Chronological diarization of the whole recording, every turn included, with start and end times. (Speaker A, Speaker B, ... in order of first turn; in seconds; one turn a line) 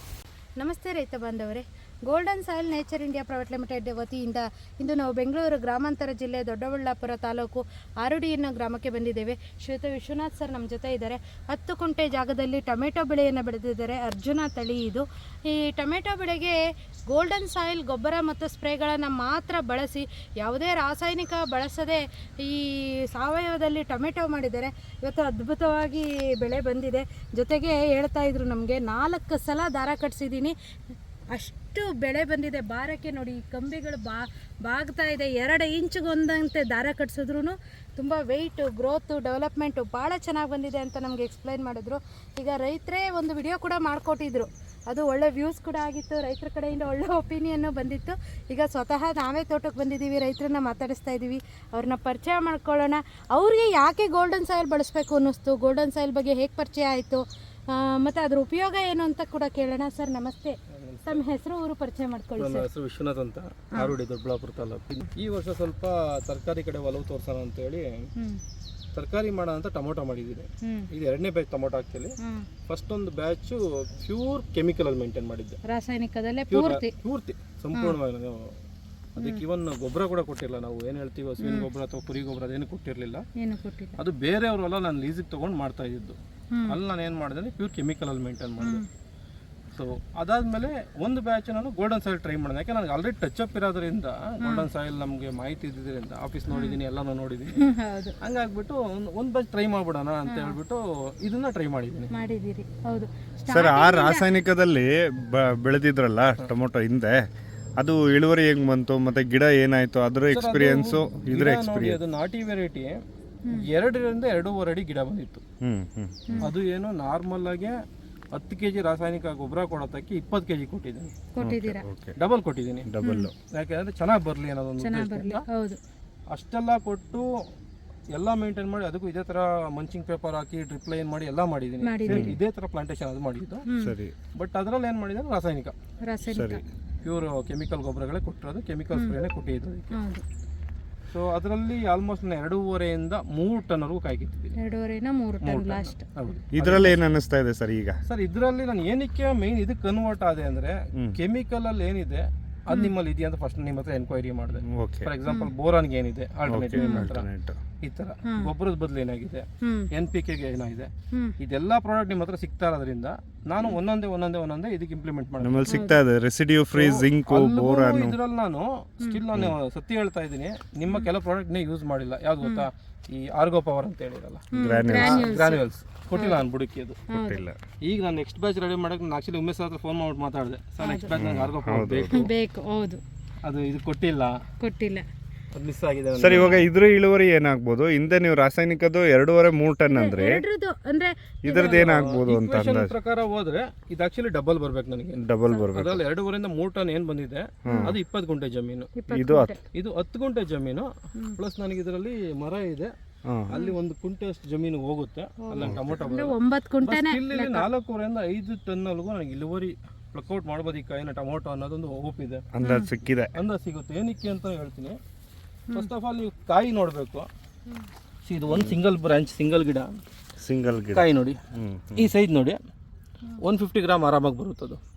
Speaker A: 0.6-16.6
Speaker A: 17.1-30.5
Speaker A: 31.3-62.6
Speaker B: 60.7-61.2
Speaker B: 62.4-68.1
Speaker B: 68.9-72.2
Speaker A: 70.6-70.9
Speaker A: 72.2-72.5
Speaker B: 72.7-75.6
Speaker A: 75.6-76.9
Speaker B: 76.5-78.5
Speaker B: 79.2-83.2
Speaker A: 81.4-81.7
Speaker A: 83.4-84.0
Speaker B: 84.0-88.8
Speaker A: 86.5-86.8
Speaker A: 88.6-88.8
Speaker B: 89.7-97.6
Speaker A: 96.5-96.8
Speaker A: 97.5-98.2
Speaker B: 98.2-102.1
Speaker A: 100.3-100.6
Speaker A: 102.1-104.3
Speaker C: 103.5-107.2
Speaker C: 107.8-112.0
Speaker B: 110.3-113.0
Speaker B: 113.5-115.4
Speaker C: 115.6-116.5
Speaker B: 116.4-117.8
Speaker B: 118.3-121.2
Speaker A: 121.3-121.8
Speaker C: 121.4-122.2
Speaker B: 122.2-122.9
Speaker C: 122.8-123.3
Speaker A: 123.0-123.3
Speaker B: 123.4-125.4
Speaker A: 124.8-125.8
Speaker B: 126.3-127.3
Speaker B: 128.1-133.7
Speaker A: 131.8-132.3
Speaker C: 132.1-132.4
Speaker A: 133.7-133.9
Speaker C: 133.8-134.1
Speaker B: 134.3-135.7
Speaker A: 136.0-136.6
Speaker C: 136.3-136.6
Speaker B: 137.0-140.0
Speaker A: 139.9-140.2
Speaker B: 141.1-144.6
Speaker A: 144.6-146.2
Speaker B: 145.4-147.1
Speaker C: 146.5-148.0
Speaker B: 148.1-157.3
Speaker C: 154.6-155.1
Speaker A: 155.3-155.5
Speaker C: 156.5-157.6
Speaker A: 156.8-157.1
Speaker B: 157.8-165.9
Speaker A: 158.2-158.5
Speaker A: 159.6-159.9
Speaker C: 165.4-168.2
Speaker A: 165.7-166.0
Speaker B: 166.7-177.0
Speaker C: 174.5-175.3
Speaker A: 174.5-175.6
Speaker A: 176.1-176.4
Speaker C: 177.1-177.6
Speaker A: 177.1-177.4
Speaker B: 177.8-182.3
Speaker A: 180.8-181.1
Speaker C: 181.1-182.1
Speaker A: 182.1-183.0
Speaker B: 183.4-184.4
Speaker A: 184.6-185.1
Speaker B: 185.5-186.6
Speaker C: 186.2-190.4
Speaker A: 186.3-186.6
Speaker A: 189.9-191.9
Speaker C: 191.4-192.9
Speaker B: 191.6-195.2
Speaker C: 195.2-196.0
Speaker B: 195.7-198.9
Speaker C: 197.6-198.0
Speaker A: 197.7-197.9
Speaker A: 199.0-199.6
Speaker C: 199.1-199.5
Speaker B: 199.7-202.9
Speaker C: 203.3-203.5
Speaker B: 203.5-212.4
Speaker A: 205.4-207.7
Speaker C: 205.6-206.0
Speaker C: 212.5-213.3
Speaker A: 212.6-212.9
Speaker B: 213.3-215.0
Speaker B: 215.7-217.3
Speaker B: 218.2-220.0
Speaker C: 218.5-218.8
Speaker C: 220.4-222.1
Speaker B: 220.9-221.4
Speaker B: 221.9-222.6
Speaker B: 223.4-224.8